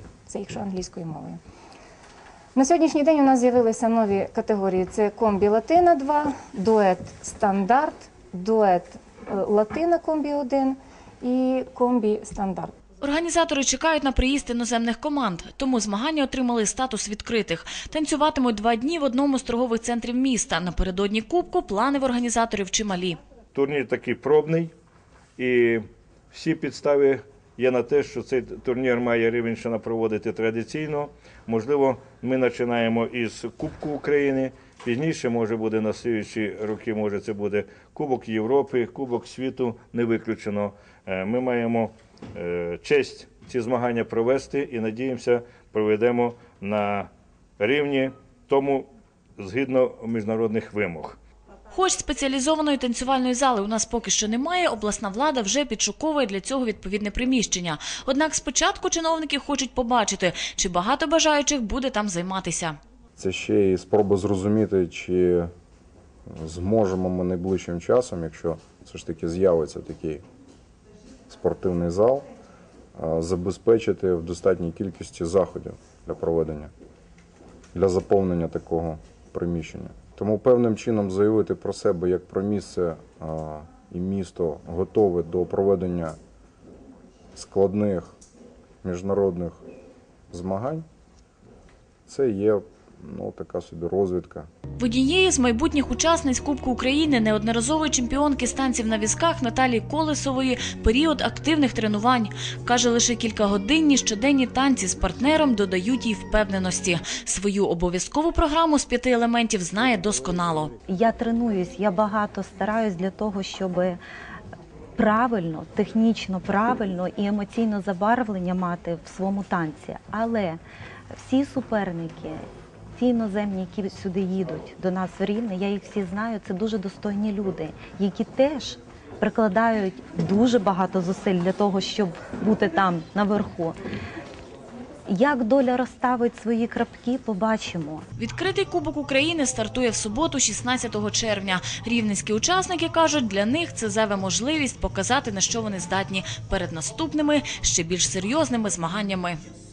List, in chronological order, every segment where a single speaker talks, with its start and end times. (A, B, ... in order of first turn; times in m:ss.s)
0:00.2-0:01.4 A
0:02.5-0:12.7 A
0:13.0-0:23.2 B
0:23.5-0:24.7 C
0:25.4-0:51.2 C
0:51.7-1:02.8 B
1:03.2-1:05.5 D
1:06.3-1:10.2 D
1:11.3-1:12.3 D
1:13.0-1:16.7 D
1:17.7-1:26.2 D
1:27.3-1:28.1 D
1:28.8-1:29.6 D
1:30.3-1:30.8 D
1:32.1-1:34.5 D
1:34.8-1:50.7 B
1:50.9-1:54.0 E
1:55.0-2:00.6 E
2:01.1-2:13.8 E
2:15.1-2:18.0 E
2:18.2-2:29.4 B